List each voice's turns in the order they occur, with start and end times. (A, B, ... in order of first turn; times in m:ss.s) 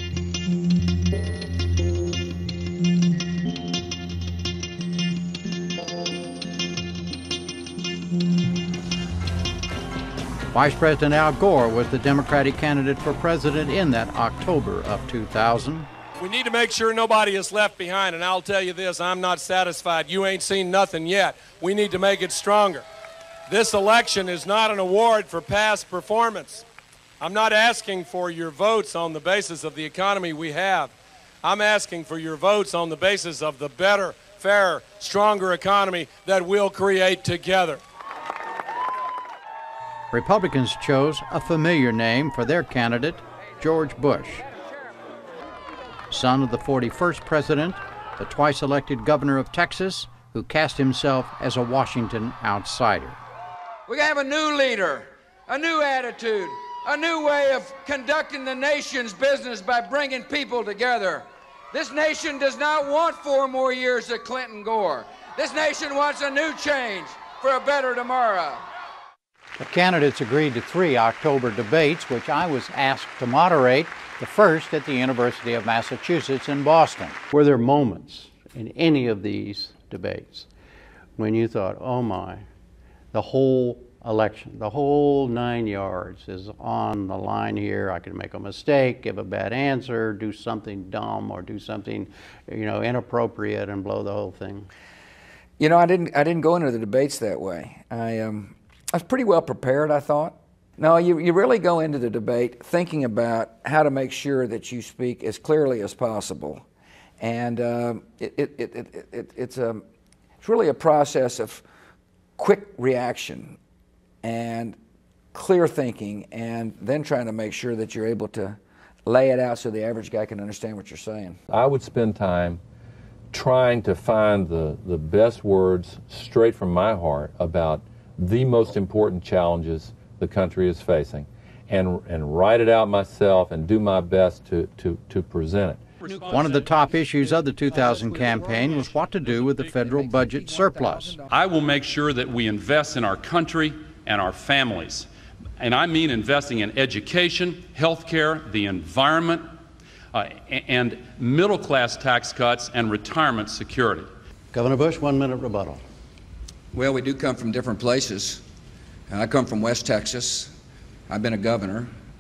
0:10.5-0:15.9 A
0:16.2-0:22.8 B
0:23.5-0:26.6 B
0:27.2-0:37.8 B
0:40.1-0:44.4 A
0:46.1-0:53.2 A
0:53.9-1:08.6 C
1:09.6-1:20.5 A
1:21.2-1:22.4 A
1:23.1-1:34.7 A
1:35.6-1:46.6 C
1:47.2-1:49.8 C
1:50.4-1:51.6 C
1:52.4-1:53.6 C
1:54.2-1:54.8 C
1:55.3-2:01.4 C
2:01.5-2:02.6 D
2:03.3-2:15.8 D
2:16.0-2:19.6 E
2:16.3-2:21.2 A
2:18.2-2:18.8 C
2:19.4-2:21.3 C
2:21.3-2:25.1 E
2:25.6-2:29.4 E
2:30.1-2:34.1 E
2:34.5-2:35.8 A
2:36.7-2:38.4 C
2:39.1-2:40.5 C
2:41.1-2:41.9 C